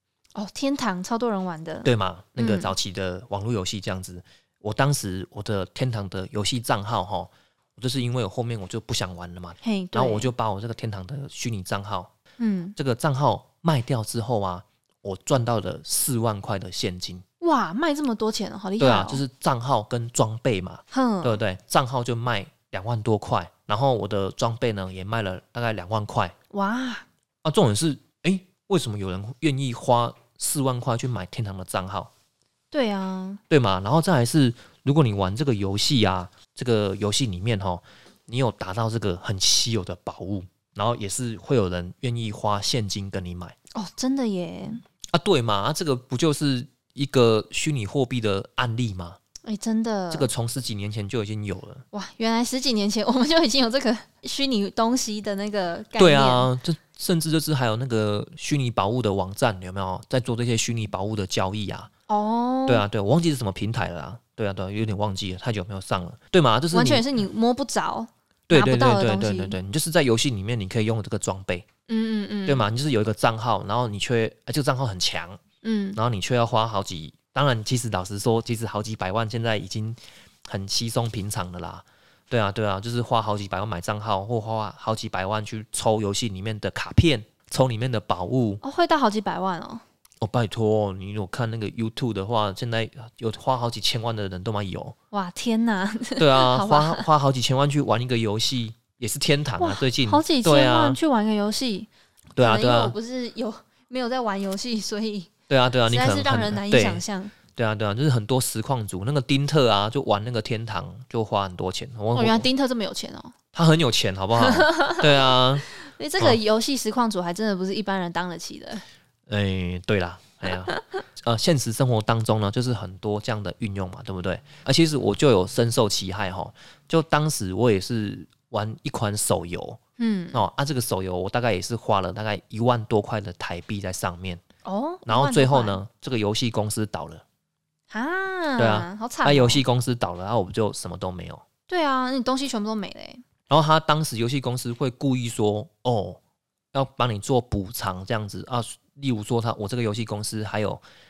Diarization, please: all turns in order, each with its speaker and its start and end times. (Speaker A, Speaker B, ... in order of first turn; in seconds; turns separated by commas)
Speaker A: 0.3-2.7, Speaker B: 1.8-12.1, Speaker A: 9.6-10.3, Speaker A: 12.4-12.8, Speaker B: 12.8-17.2, Speaker A: 17.4-19.2, Speaker B: 18.8-26.3, Speaker A: 20.9-21.4, Speaker A: 26.5-27.1, Speaker B: 27.4-32.1, Speaker A: 32.7-33.4, Speaker B: 33.5-43.6, Speaker A: 43.8-44.8, Speaker B: 45.1-49.2, Speaker A: 49.4-50.3, Speaker B: 50.1-51.9, Speaker A: 51.9-56.5, Speaker B: 56.0-61.9, Speaker A: 62.1-62.8, Speaker B: 62.7-67.2, Speaker A: 66.7-69.6, Speaker B: 68.5-71.7, Speaker A: 71.9-72.7, Speaker B: 72.5-75.4, Speaker A: 75.6-76.0, Speaker B: 76.0-88.6, Speaker A: 88.6-89.8, Speaker B: 90.2-95.0, Speaker A: 95.1-97.1, Speaker B: 96.2-101.0, Speaker A: 99.6-105.3, Speaker B: 102.4-103.0, Speaker B: 105.5-107.0, Speaker A: 105.9-107.3, Speaker B: 107.5-112.5, Speaker A: 112.2-113.3, Speaker B: 113.5-115.7, Speaker A: 114.4-118.8, Speaker B: 119.3-129.8, Speaker A: 130.0-130.4, Speaker B: 130.3-134.4, Speaker A: 134.7-135.8, Speaker B: 135.1-137.2, Speaker A: 137.9-139.6, Speaker B: 138.6-141.4, Speaker A: 141.7-143.2, Speaker B: 143.5-146.2, Speaker B: 146.7-150.8